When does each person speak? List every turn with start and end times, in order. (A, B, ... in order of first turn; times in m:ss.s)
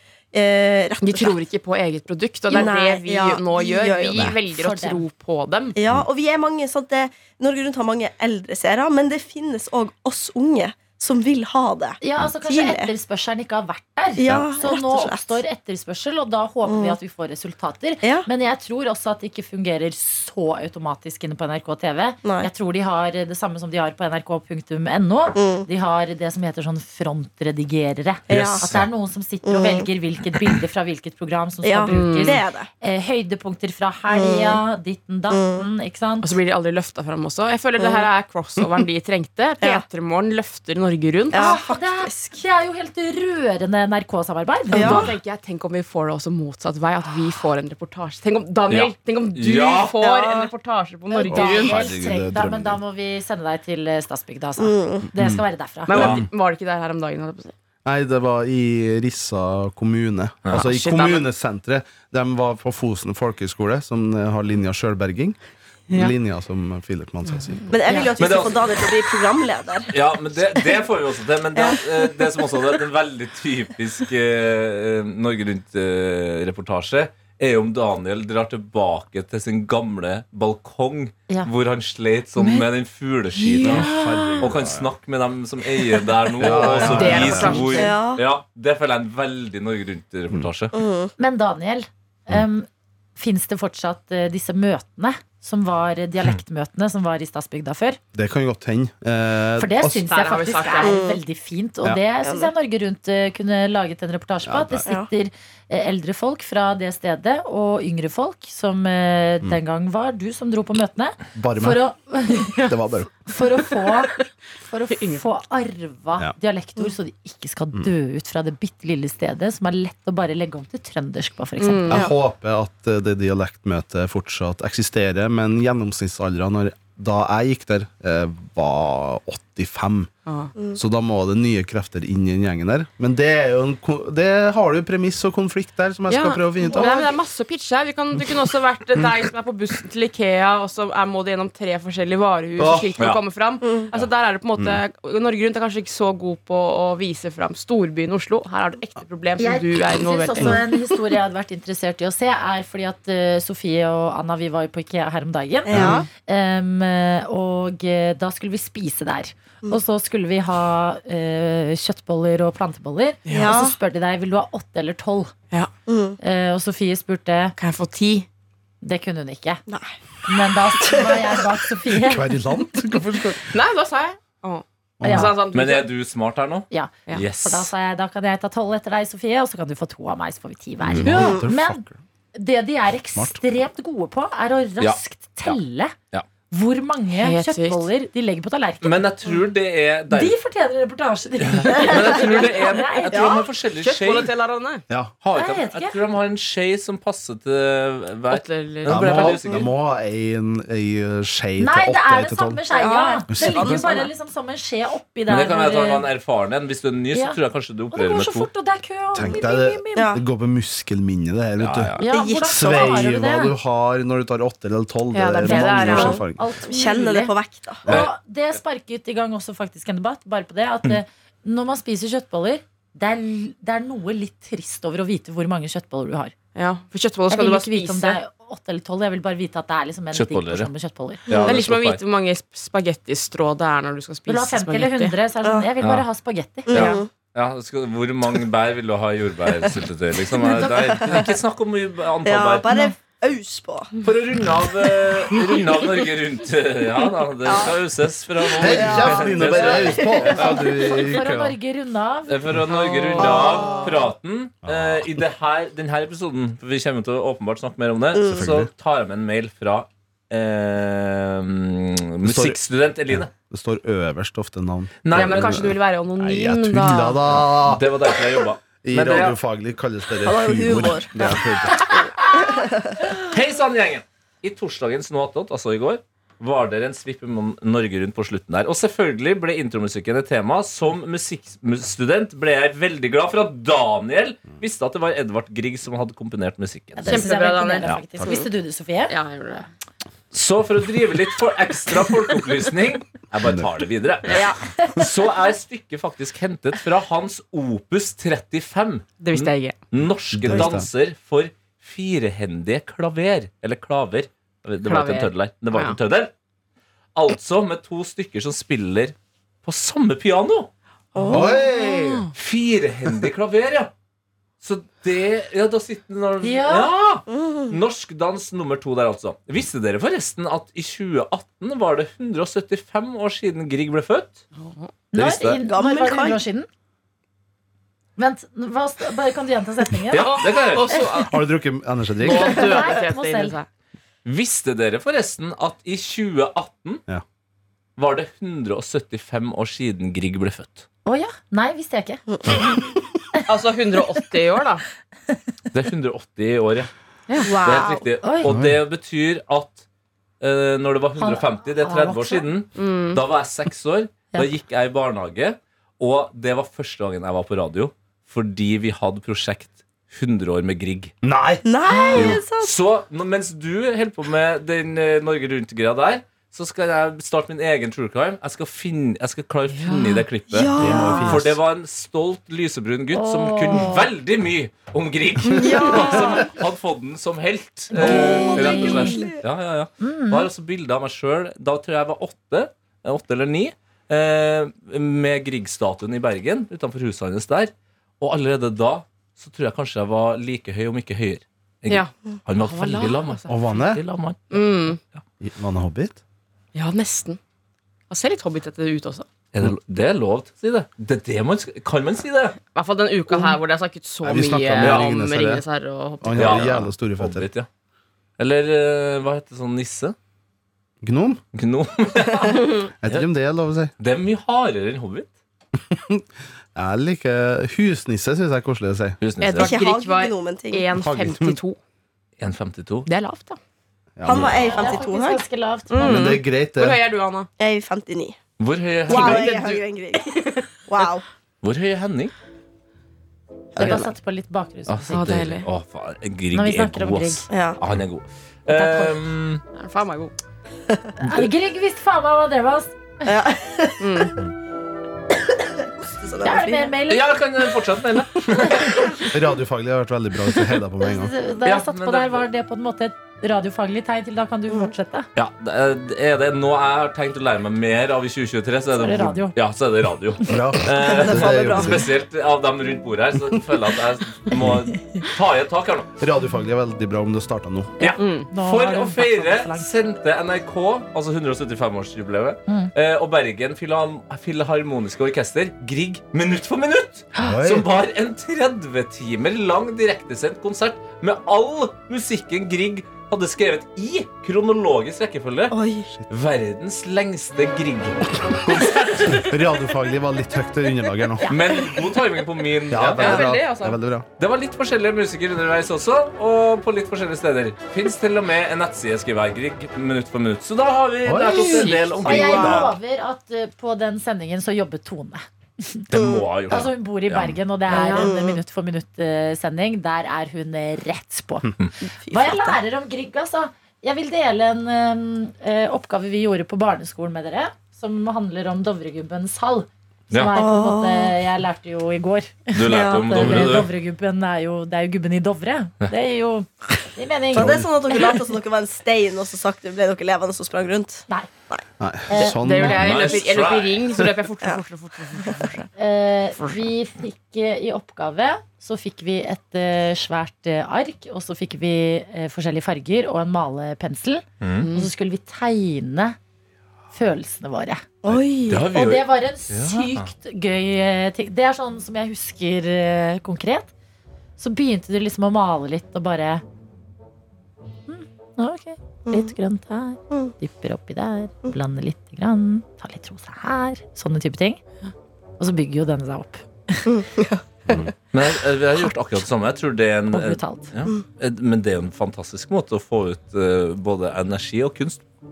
0:00.3-0:01.4 A
0:01.0-0:05.8 B
0:02.5-0:04.3 A
0:04.4-0:05.0 C
0:05.8-0:12.9 A
0:12.0-0:36.3 C
0:14.2-0:15.4 A
0:16.6-0:17.0 A
0:18.0-0:18.3 A
0:22.2-0:22.5 A
0:25.4-0:25.7 A
0:28.3-0:28.7 A
0:28.3-0:28.8 D
0:29.4-0:29.9 A
0:31.6-0:32.7 A
0:31.9-0:32.4 B
0:34.1-0:34.6 A
0:35.3-0:35.6 A
0:36.2-0:41.5 B
0:37.8-0:38.1 A
0:41.3-0:42.4 A
0:41.3-0:45.1 C
0:44.7-0:45.1 A
0:44.7-0:51.8 B
0:48.7-0:50.0 D
0:50.0-0:50.5 A
0:51.1-0:56.2 C
0:51.3-0:52.8 E
0:54.6-0:55.1 A
0:55.1-0:55.4 E
0:55.9-0:57.5 B
0:55.9-0:56.2 D
0:57.8-1:05.4 E
1:00.5-1:01.3 B
1:05.9-1:07.6 E
1:07.7-1:08.1 B
1:07.7-1:09.9 A
1:08.2-1:08.8 D
1:09.9-1:23.9 D
1:11.5-1:12.4 A
1:23.4-1:24.4 C
1:23.6-1:24.2 B
1:23.6-1:24.9 E
1:24.4-1:30.7 D
1:26.4-1:27.8 E
1:26.4-1:28.0 B
1:26.9-1:27.7 C
1:27.7-1:28.2 A
1:30.7-1:31.1 A
1:31.2-1:38.0 C
1:38.1-1:40.0 E
1:39.6-1:52.6 C
1:40.0-1:41.0 B
1:40.8-1:41.2 A
1:42.2-1:42.5 A
1:44.4-1:44.9 E
1:44.8-1:45.1 A
1:51.3-1:51.8 E
1:52.6-1:53.1 E
1:53.2-2:02.0 C
1:54.9-1:55.2 B
2:01.6-2:02.1 B
2:01.9-2:10.1 E
2:10.2-2:10.5 B
2:10.7-2:17.1 E
2:16.1-2:30.6 B
2:16.6-2:17.1 A
2:22.6-2:22.9 E
2:23.6-2:23.9 A
2:29.4-2:45.3 C
2:35.6-2:36.1 A
2:35.7-2:36.0 E
2:43.3-2:43.8 A
2:45.9-2:46.2 A
2:46.2-2:47.5 C
2:47.6-2:48.3 B
2:48.8-2:49.6 C
2:49.7-2:49.9 A
2:50.3-2:52.3 C
2:50.8-2:51.4 A
2:52.0-2:53.5 E
2:53.4-2:55.9 B
2:55.0-2:55.3 E
2:55.0-2:55.3 C
2:55.5-2:57.7 D
2:56.7-3:05.9 C
3:00.8-3:02.0 E
3:01.1-3:01.4 A
3:03.1-3:03.4 E
3:04.8-3:05.6 D
3:06.5-3:09.0 C
3:07.1-3:07.8 B
3:08.8-3:10.4 D
3:10.1-3:13.4 C
3:11.4-3:14.3 D
3:13.1-3:13.4 A
3:13.2-3:14.8 B
3:15.2-3:19.7 D
3:15.3-3:16.0 C
3:18.3-3:19.4 B
3:18.8-3:22.6 E
3:21.6-3:26.1 C
3:22.7-3:23.7 A
3:22.8-3:24.1 B
3:23.3-3:23.6 E
3:25.3-3:28.5 D
3:27.9-3:30.2 C
3:29.1-3:36.4 E
3:29.9-3:30.2 A
3:31.6-3:32.0 D
3:32.0-3:33.5 C
3:32.1-3:33.0 A
3:35.1-3:36.2 B
3:35.4-3:37.3 C
3:35.8-3:37.8 A
3:37.8-3:46.3 C
3:37.9-3:38.1 D
3:46.5-3:48.2 B
3:47.3-3:51.3 C
3:50.1-3:50.7 D
3:51.3-3:52.0 D
3:51.3-3:51.6 E
3:51.4-3:55.1 B
3:54.3-3:56.8 C
3:56.7-3:57.1 A
3:56.7-4:02.7 D
3:56.7-3:57.0 B
4:00.2-4:01.3 A
4:02.2-4:04.0 A
4:02.7-4:02.9 C
4:04.0-4:10.7 D
4:07.4-4:07.7 A
4:08.4-4:10.7 A
4:08.6-4:11.6 E
4:10.8-4:12.4 C
4:12.3-4:23.3 D
4:12.7-4:13.8 B
4:13.2-4:14.1 A
4:14.6-4:15.2 E
4:18.1-4:18.5 A
4:18.2-4:18.7 E
4:22.2-4:27.9 E
4:25.0-4:25.7 D
4:25.1-4:27.2 B
4:27.6-4:29.4 D
4:28.8-4:31.9 E
4:30.2-4:33.1 A
4:33.1-4:47.2 D
4:47.0-4:49.1 C
4:47.0-4:47.9 B
4:47.9-4:48.3 E
4:49.1-4:49.7 B
4:50.3-5:06.3 D
4:53.4-4:53.7 E
4:54.3-4:54.6 B
4:59.2-4:59.8 B
5:00.3-5:00.9 E
5:04.8-5:06.0 B
5:07.1-5:10.7 D
5:11.2-5:12.3 B
5:11.2-5:11.5 A
5:11.3-5:12.3 E
5:12.3-5:13.9 D
5:14.6-5:24.4 D
5:16.4-5:16.9 C
5:17.3-5:17.8 A
5:24.6-5:24.9 B
5:25.1-5:26.7 C
5:25.1-5:25.6 D
5:25.6-5:26.4 A
5:28.2-5:30.3 C
5:30.1-5:31.0 D
5:30.1-5:31.4 B
5:31.3-5:32.6 E
5:32.2-5:33.7 B
5:32.3-5:33.5 C
5:34.2-5:37.0 D
5:38.0-5:40.8 D
5:41.0-5:42.6 C
5:43.5-5:44.8 B
5:45.7-5:46.9 D
5:47.3-5:47.7 B
5:47.4-5:48.5 C
5:47.6-5:49.8 D
5:48.4-5:48.8 E
5:50.4-6:01.1 D
5:51.2-5:52.5 C
5:52.7-5:53.2 B
6:01.2-6:01.6 E
6:01.6-6:02.7 A
6:01.9-6:02.4 C
6:02.1-6:35.2 D
6:09.7-6:10.2 B
6:10.5-6:11.3 A
6:10.7-6:11.6 E
6:10.8-6:11.3 C
6:13.1-6:14.1 C
6:15.5-6:16.5 A
6:15.9-6:16.2 C
6:17.9-6:19.2 C
6:18.0-6:19.4 A
6:20.0-6:20.5 C
6:31.9-6:33.5 B
6:33.5-6:34.0 E
6:34.5-6:35.0 B
6:35.4-6:36.2 E
6:36.7-6:37.4 B
6:38.1-6:39.3 B
6:39.5-6:42.6 D
6:42.7-6:46.8 B
6:44.2-6:45.6 E
6:44.8-6:45.1 D
6:46.2-6:47.5 E
6:46.4-6:47.7 D
6:48.4-6:50.2 D
6:51.0-6:51.4 E
6:51.5-6:53.3 D
6:53.0-6:53.9 E
6:54.0-6:55.3 D
6:55.9-6:59.2 E
6:59.2-6:59.7 D
6:59.4-7:01.8 B
6:59.6-7:00.9 A
7:01.0-7:01.6 E
7:02.4-7:03.1 D
7:03.0-7:03.6 B
7:04.2-7:04.6 E
7:04.2-7:05.4 A
7:04.6-7:06.4 C
7:05.9-7:07.5 B
7:06.0-7:07.0 E
7:07.6-7:08.4 A
7:08.6-7:09.6 D
7:09.1-7:10.6 B
7:09.1-7:11.2 A
7:11.6-7:12.3 D
7:13.8-7:14.0 A
7:13.8-7:15.2 C
7:14.9-7:19.6 D
7:15.1-7:15.7 B
7:16.5-7:17.5 C
7:17.5-7:17.8 A
7:18.7-7:19.1 C
7:19.7-7:20.3 B
7:21.2-7:22.9 C
7:23.2-7:24.3 A
7:24.0-7:24.3 B
7:26.0-7:26.9 A
7:26.4-7:27.2 C
7:27.1-7:29.0 D
7:28.6-7:29.1 C
7:29.3-7:31.3 E
7:31.0-7:35.3 C
7:31.6-7:32.4 D
7:35.4-7:46.1 D
7:39.0-7:39.5 C
7:40.4-7:42.1 E
7:41.0-7:42.0 A
7:44.6-7:44.8 E
7:46.2-7:48.0 E
7:48.0-7:49.9 C
7:48.0-8:05.8 D
7:48.2-7:48.5 B
7:57.4-7:57.9 E
8:05.7-8:06.1 A
8:06.3-8:09.6 D
8:09.3-8:11.5 E
8:11.5-8:13.5 D
8:12.9-8:14.2 E
8:13.2-8:14.0 B
8:14.4-8:22.9 D
8:21.2-8:21.9 E
8:21.5-8:22.7 B
8:22.2-8:26.1 C
8:26.1-8:27.6 D
8:26.1-8:26.4 A
8:26.7-8:31.7 C
8:27.9-8:28.3 B
8:28.0-8:28.6 A
8:32.3-8:48.4 C
8:40.5-8:41.4 A
8:42.7-8:43.9 D
8:42.8-8:43.8 A
8:47.5-8:47.9 E
8:47.5-8:51.8 A
8:52.0-8:53.4 E
8:52.3-8:52.7 C
8:52.3-8:55.9 B
8:52.8-8:54.2 D
8:56.0-9:06.4 C
8:56.6-8:56.8 B
9:04.6-9:04.9 D
9:04.8-9:05.1 B
9:07.1-9:08.0 C
9:08.2-9:08.9 A
9:08.3-9:10.3 D
9:08.9-9:13.9 C
9:14.6-9:16.6 C
9:18.1-9:24.8 C
9:19.3-9:19.5 A
9:25.6-9:27.1 C
9:27.0-9:28.1 A
9:28.3-9:35.2 D
9:30.3-9:30.9 C